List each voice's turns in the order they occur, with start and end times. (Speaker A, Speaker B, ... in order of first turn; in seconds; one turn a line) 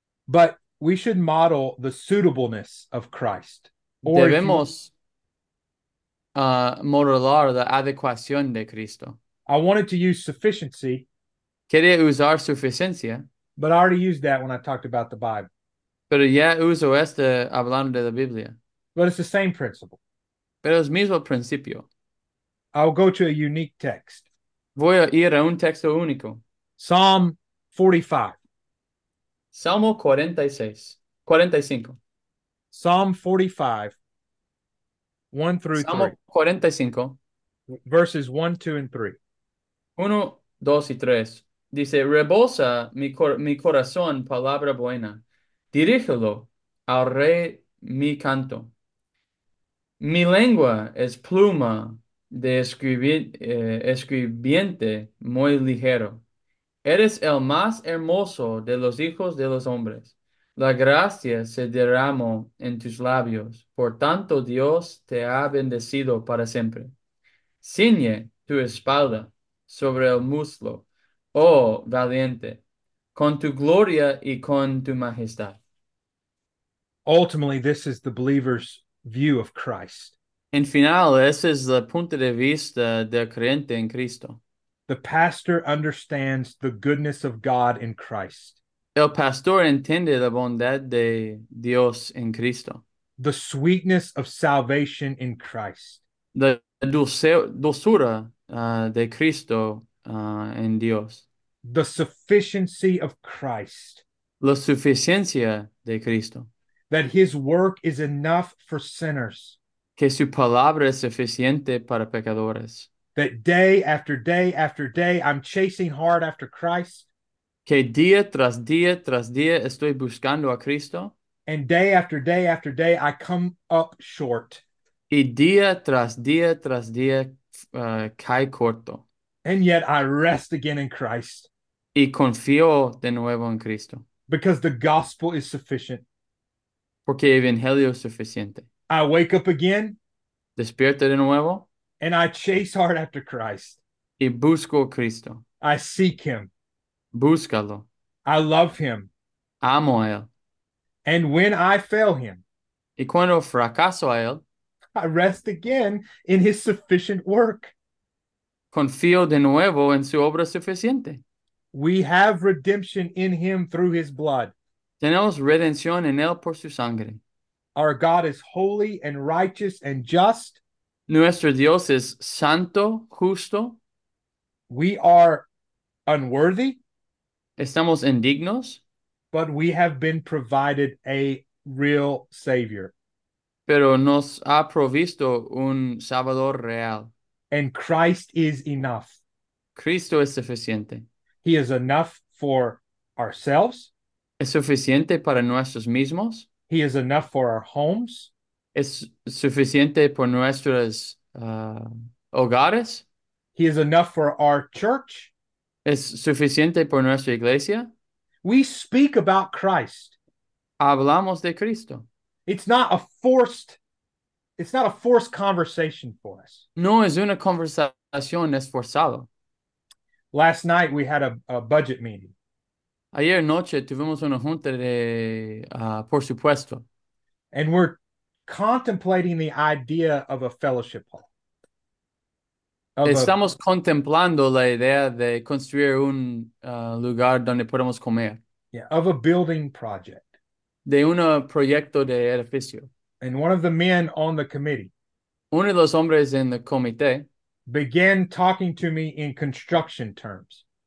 Speaker A: 0.3-4.7
Speaker B: 4.1-4.9
Speaker B: 6.3-9.2
Speaker A: 9.5-11.1
Speaker B: 11.7-13.2
Speaker A: 13.6-15.5
Speaker B: 16.1-18.6
Speaker A: 18.9-20.0
Speaker B: 20.6-21.9
Speaker A: 22.7-24.2
Speaker B: 24.8-26.4
Speaker A: 26.8-28.4
Speaker B: 29.5-32.0
Speaker A: 32.7-33.9
Speaker A: 35.3-36.1
Speaker B: 35.8-37.2
Speaker A: 37.7-39.2
Speaker B: 40.0-48.7
Speaker B: 50.0-56.2
Speaker B: 56.8-66.9
Speaker B: 67.6-72.6
Speaker B: 73.1-75.6
Speaker A: 77.0-80.1
Speaker B: 80.5-84.4
Speaker A: 84.9-88.6
Speaker B: 88.9-92.8
Speaker A: 93.2-96.0
Speaker B: 96.3-101.2
Speaker A: 101.6-104.0
Speaker B: 104.4-106.5
Speaker A: 106.9-109.6
Speaker B: 110.0-112.9
Speaker A: 113.2-117.1
Speaker B: 117.7-121.1
Speaker A: 121.5-124.6
Speaker B: 125.1-129.0
Speaker A: 129.4-131.5
Speaker B: 131.9-134.0
Speaker A: 134.3-136.0
Speaker B: 137.1-138.7
Speaker A: 138.9-140.0
Speaker B: 140.6-141.7
Speaker A: 142.0-143.8
Speaker B: 144.2-145.4
Speaker A: 145.6-146.5
Speaker B: 147.1-147.9
Speaker A: 148.2-149.1
Speaker B: 149.6-150.3
Speaker A: 151.0-152.4
Speaker B: 153.0-154.4
Speaker A: 154.9-157.7
Speaker B: 158.7-161.2
Speaker A: 161.7-164.5
Speaker B: 165.0-167.2
Speaker A: 167.7-170.6
Speaker B: 171.1-173.8
Speaker A: 174.7-175.5
Speaker A: 176.1-176.8
Speaker B: 177.6-178.8
Speaker A: 179.3-182.9
Speaker B: 183.7-187.1
Speaker A: 187.5-189.2
Speaker B: 189.7-191.1
Speaker A: 191.4-193.9
Speaker B: 194.4-196.4
Speaker A: 196.7-198.3
Speaker B: 198.7-203.0
Speaker A: 203.6-205.3
Speaker B: 205.8-207.9
Speaker A: 208.4-210.2
Speaker B: 210.8-212.1
Speaker A: 212.4-213.8
Speaker A: 214.6-216.6
Speaker B: 216.8-219.3
Speaker A: 220.3-222.3
Speaker B: 223.1-226.8
Speaker A: 227.5-231.3
Speaker A: 233.0-233.3
Speaker B: 233.0-238.4
Speaker A: 238.7-240.3
Speaker B: 240.8-242.9
Speaker A: 243.2-244.9
Speaker B: 245.5-247.3
Speaker A: 247.7-250.6